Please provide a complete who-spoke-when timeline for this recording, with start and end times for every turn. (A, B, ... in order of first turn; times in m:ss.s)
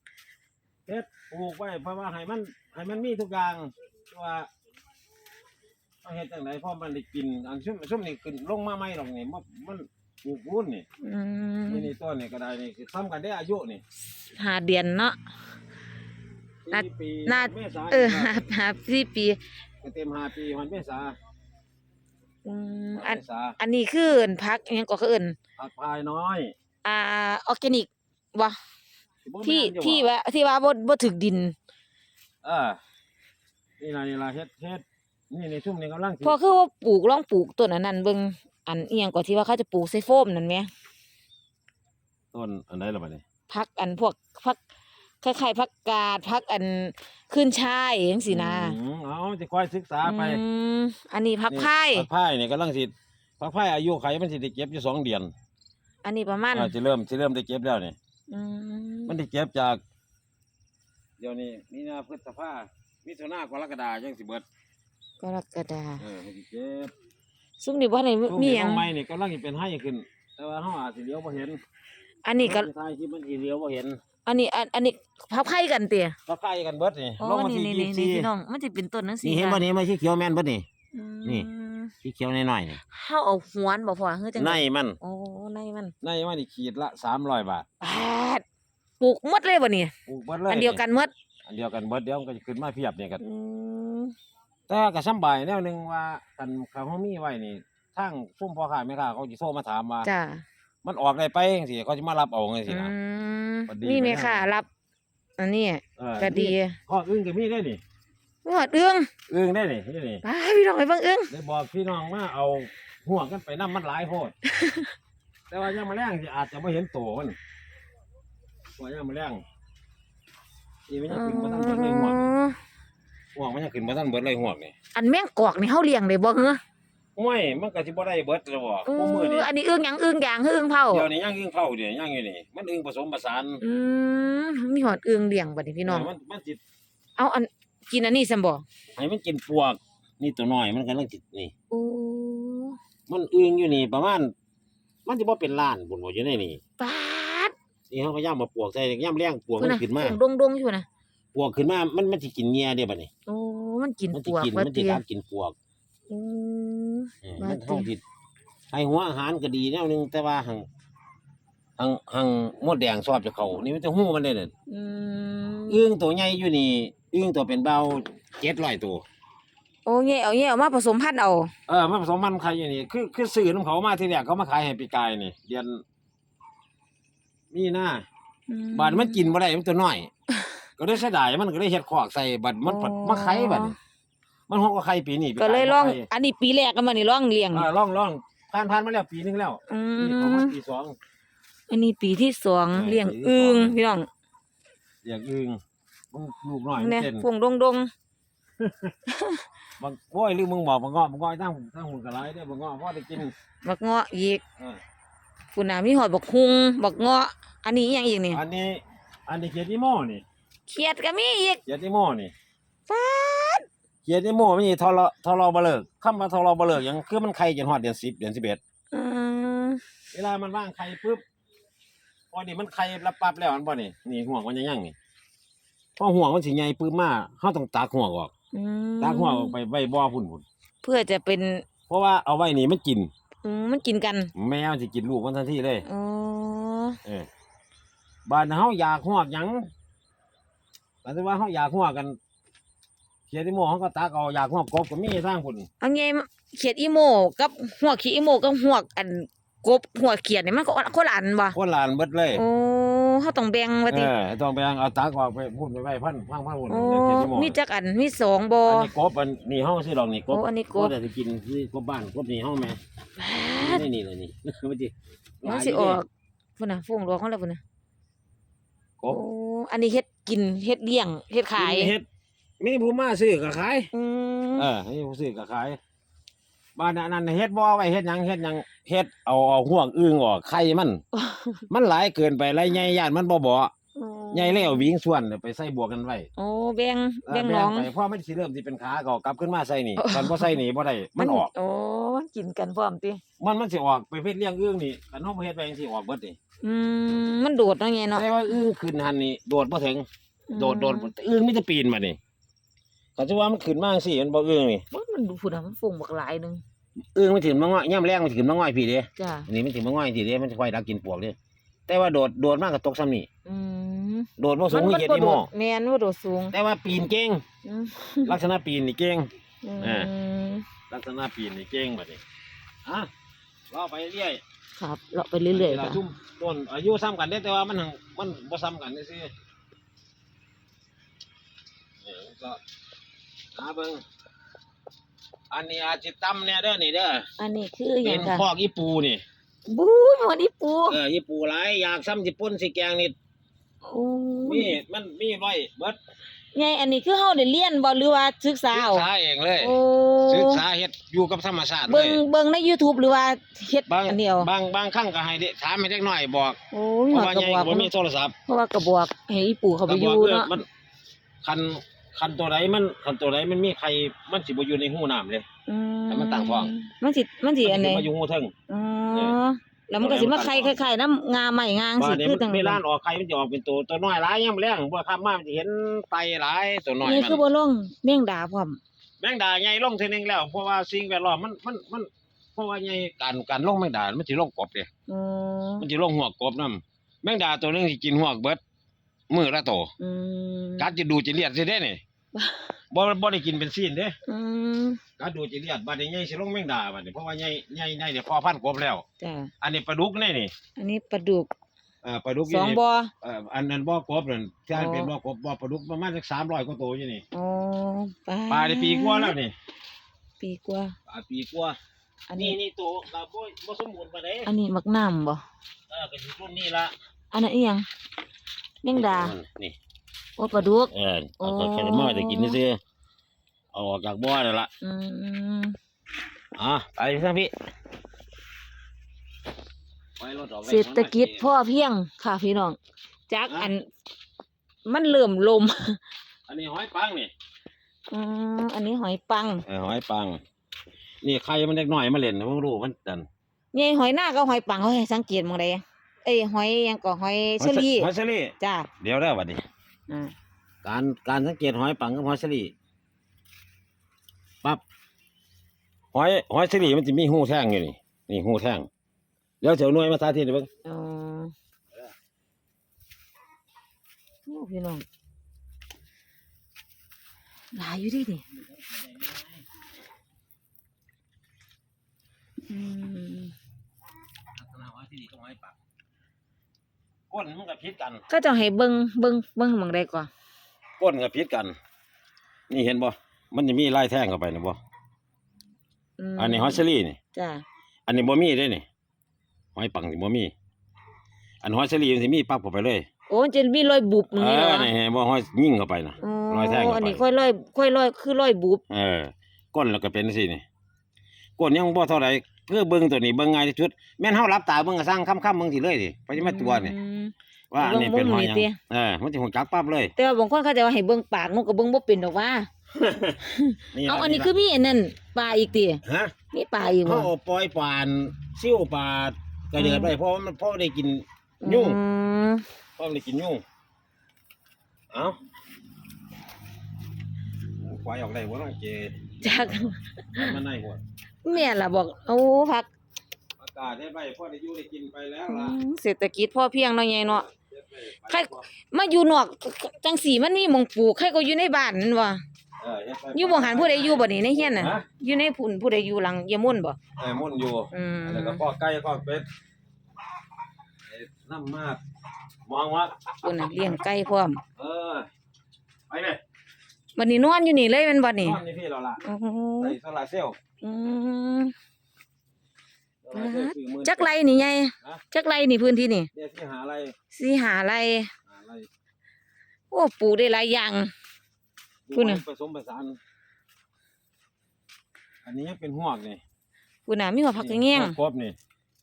0:00.9-0:04.5 A
0:06.0-0:10.9 A
0:11.0-0:11.9 B
0:11.7-0:13.8 A
0:14.3-0:15.2 B
0:16.6-0:18.4 A
0:16.7-0:19.4 B
0:19.8-0:21.2 A
0:22.4-0:25.4 B
0:23.0-0:23.6 A
0:25.6-0:26.5 A
0:26.8-0:28.6 B
0:29.2-0:30.1 A
0:29.4-0:31.6 B
0:32.4-0:32.8 A
0:33.8-0:36.4 A
0:36.2-0:40.7 B
0:42.3-0:43.2 A
0:43.5-0:44.6 B
0:45.2-0:48.8 B
0:48.3-0:50.4 A
0:50.0-0:52.1 B
0:51.5-0:55.3 A
0:56.0-0:56.7 B
0:56.5-0:58.0 A
0:58.3-0:59.2 B
0:59.1-0:59.8 A
1:01.2-1:04.4 A
1:05.2-1:06.0 B
1:06.0-1:06.9 A
1:07.6-1:08.9 B
1:08.3-1:11.6 A
1:12.2-1:12.7 B
1:12.4-1:14.0 A
1:14.2-1:16.2 B
1:16.3-1:18.3 A
1:17.2-1:19.6 B
1:19.2-1:20.6 A
1:20.9-1:21.9 B
1:22.0-1:22.8 A
1:22.9-1:25.9 B
1:24.4-1:25.0 A
1:26.0-1:27.6 A
1:27.8-1:28.4 B
1:29.0-1:29.9 B
1:30.1-1:30.8 A
1:30.5-1:31.1 B
1:31.4-1:33.2 A
1:33.2-1:34.1 B
1:34.7-1:40.1 A
1:40.0-1:40.4 B
1:40.8-1:42.9 A
1:42.7-1:44.7 B
1:43.7-1:44.5 A
1:45.4-1:46.8 B
1:46.0-1:47.8 A
1:48.4-1:49.1 B
1:49.3-1:50.2 A
1:50.2-1:51.3 B
1:51.3-1:54.3 A
1:54.5-1:54.9 B
1:55.5-1:57.4 A
1:58.8-1:59.4 A
2:00.9-2:02.2 A
2:01.1-2:02.6 B
2:03.3-2:04.7 A
2:04.9-2:06.6 B
2:07.2-2:09.5 A
2:08.9-2:11.1 B
2:10.9-2:13.6 A
2:13.6-2:16.1 B
2:15.8-2:16.6 A
2:17.2-2:18.6 B
2:19.0-2:21.5 A
2:21.7-2:22.8 B
2:23.1-2:24.3 A
2:25.1-2:26.6 A
2:26.8-2:27.5 B
2:27.9-2:30.2 A
2:29.6-2:30.9 B
2:31.3-2:33.1 A
2:33.3-2:35.0 B
2:34.1-2:35.6 A
2:36.1-2:37.9 B
2:37.2-2:38.0 A
2:38.7-2:40.7 A
2:41.8-2:44.5 A
2:44.7-2:45.8 B
2:45.7-2:49.0 A
2:49.9-2:51.5 B
2:51.7-2:55.8 A
2:57.5-2:58.1 A
2:58.5-2:59.3 B
2:58.8-3:00.1 A
3:00.8-3:03.8 A
3:02.6-3:03.8 B
3:04.5-3:06.1 A
3:05.4-3:07.7 B
3:07.5-3:11.0 A
3:09.7-3:10.6 B
3:11.7-3:14.1 B
3:12.7-3:13.8 A
3:15.0-3:15.6 A
3:16.1-3:17.2 A
3:16.8-3:17.9 B
3:18.6-3:18.9 A
3:19.1-3:19.4 B
3:19.8-3:23.3 A
3:23.6-3:24.4 B
3:25.5-3:28.4 B
3:28.3-3:30.2 A
3:30.7-3:31.6 B
3:31.6-3:32.3 A
3:32.9-3:33.6 B
3:34.0-3:38.6 A
3:38.9-3:39.8 B
3:40.1-3:41.2 A
3:42.3-3:44.9 A
3:46.0-3:48.3 A
3:48.5-3:49.5 B
3:49.0-3:50.4 A
3:50.8-3:51.6 B
3:51.9-3:53.1 A
3:53.4-3:54.3 B
3:54.4-3:55.8 A
3:55.9-3:57.0 B
3:58.2-3:59.7 A
4:01.0-4:02.2 A
4:03.3-4:05.7 A
4:05.8-4:11.6 B
4:11.5-4:12.4 A
4:12.3-4:14.1 B
4:13.9-4:17.6 A
4:16.7-4:18.9 B
4:18.7-4:22.8 A
4:20.3-4:20.9 B
4:23.2-4:23.9 B
4:23.5-4:26.0 A
4:25.4-4:26.1 B
4:26.6-4:27.6 B
4:29.1-4:31.9 B
4:31.6-4:32.1 A
4:32.6-4:33.9 A
4:33.9-4:34.7 B
4:34.6-4:35.8 A
4:36.8-4:41.0 A
4:41.1-4:41.6 B
4:41.7-4:43.7 A
4:44.0-4:44.9 B
4:44.3-4:46.3 A
4:46.4-4:47.9 B
4:47.3-4:51.5 A
4:50.0-4:50.6 B
4:51.2-4:53.2 B
4:53.4-4:56.4 A
4:56.6-4:58.3 B
4:58.1-5:02.2 A
5:00.5-5:01.1 B
5:03.2-5:04.8 A
5:04.9-5:06.6 B
5:07.2-5:11.4 A
5:09.2-5:09.5 B
5:11.9-5:13.3 A
5:13.4-5:16.6 B
5:14.4-5:15.5 A
5:16.5-5:17.4 A
5:17.6-5:18.4 B
5:18.2-5:19.3 A
5:19.6-5:20.7 B
5:19.8-5:20.1 A
5:20.9-5:22.2 A
5:22.8-5:23.1 A
5:23.7-5:24.4 A
5:24.8-5:26.0 B
5:25.5-5:29.3 A
5:32.0-5:32.6 A
5:33.6-5:34.0 A
5:35.5-5:37.2 A
5:37.4-5:38.4 B
5:38.0-5:39.2 A
5:39.7-5:41.0 B
5:40.9-5:43.2 A
5:43.8-5:44.8 B
5:44.4-5:46.0 A
5:46.5-5:49.1 B
5:48.7-5:49.8 A
5:49.6-5:50.6 B
5:50.3-5:52.2 A
5:51.9-5:54.5 B
5:53.9-5:56.6 A
5:56.7-5:57.9 B
5:57.1-5:58.3 A
5:58.4-6:00.5 B
5:59.9-6:00.7 A
6:01.4-6:05.4 A
6:05.7-6:08.1 B
6:06.1-6:06.7 A
6:07.6-6:08.5 A
6:08.7-6:12.8 B
6:10.0-6:10.8 A
6:12.0-6:17.4 A
6:17.0-6:18.8 B
6:19.2-6:24.9 A
6:25.1-6:25.8 B
6:25.8-6:28.6 A
6:29.3-6:29.9 A
6:30.0-6:30.9 B
6:30.8-6:32.0 A
6:32.3-6:32.8 B
6:32.9-6:34.2 A
6:34.3-6:35.0 B
6:35.2-6:39.0 A
6:39.2-6:39.5 B
6:39.6-6:40.5 A
6:40.8-6:41.5 B
6:42.0-6:47.2 A
6:42.5-6:43.1 B
6:44.7-6:45.1 B
6:47.3-6:49.3 B
6:48.5-6:49.5 A
6:50.4-6:50.9 B
6:51.1-6:51.8 A
6:52.3-6:52.6 B
6:52.4-6:54.5 A
6:54.4-6:55.4 B
6:55.9-6:56.9 A
6:57.3-6:57.9 B
6:58.8-6:59.3 B
6:58.9-6:59.8 A
7:00.4-7:02.6 B
7:00.9-7:02.8 A
7:03.7-7:04.7 A
7:04.8-7:05.8 B
7:06.6-7:07.5 A
7:10.2-7:11.5 A
7:10.7-7:12.8 B
7:13.3-7:13.9 B
7:14.8-7:16.0 B
7:16.5-7:17.3 A
7:18.1-7:19.6 B
7:19.7-7:20.4 A
7:21.2-7:23.3 A
7:23.7-7:28.1 B
7:27.6-7:29.6 A
7:28.6-7:28.9 B
7:30.8-7:32.7 A
7:36.1-7:38.9 A
7:39.6-7:40.7 A
7:40.8-7:41.5 B
7:44.4-7:45.0 B
7:47.7-7:48.4 B
7:48.6-7:49.6 A
7:52.7-7:53.5 B
7:54.6-7:55.8 A
7:57.3-7:58.2 A
7:58.3-8:00.3 B
8:01.0-8:01.8 A
8:02.7-8:04.8 A
8:06.2-8:06.8 B
8:06.4-8:07.2 A
8:07.3-8:07.6 B
8:08.1-8:08.8 A
8:09.7-8:10.5 A
8:11.6-8:13.1 A
8:13.3-8:14.9 B
8:14.3-8:17.2 A
8:16.2-8:18.8 B
8:18.9-8:20.6 A
8:21.6-8:27.0 A
8:26.4-8:28.8 B
8:27.7-8:30.1 A
8:30.2-8:32.7 B
8:32.9-8:33.4 A
8:33.4-8:37.3 B
8:33.9-8:34.5 A
8:36.0-8:36.4 A
8:37.0-8:42.0 A
8:39.8-8:40.1 B
8:41.6-8:42.6 B
8:43.0-8:43.6 A
8:45.1-8:45.4 A
8:47.8-8:49.2 A
8:49.4-8:50.6 B
8:50.4-8:51.0 A
8:51.4-8:52.9 B
8:53.6-8:55.8 A
8:55.5-8:57.5 B
8:57.5-8:58.6 A
8:58.3-9:02.4 B
9:02.8-9:05.1 A
9:03.3-9:07.0 B
9:07.2-9:09.5 A
9:07.9-9:08.6 B
9:11.1-9:12.0 A
9:12.6-9:13.7 A
9:13.4-9:14.6 B
9:14.8-9:15.3 A
9:16.1-9:16.4 A
9:17.2-9:18.6 B
9:18.4-9:19.2 A
9:19.2-9:20.0 B
9:19.8-9:20.6 A
9:20.8-9:21.7 B
9:23.2-9:24.3 A
9:23.3-9:26.3 B
9:26.3-9:27.1 A
9:27.3-9:28.3 B
9:28.5-9:28.9 A
9:29.9-9:31.1 B
9:32.1-9:33.2 A
9:32.1-9:32.4 B
9:35.4-9:36.4 A
9:37.1-9:38.2 B
9:37.6-9:38.6 A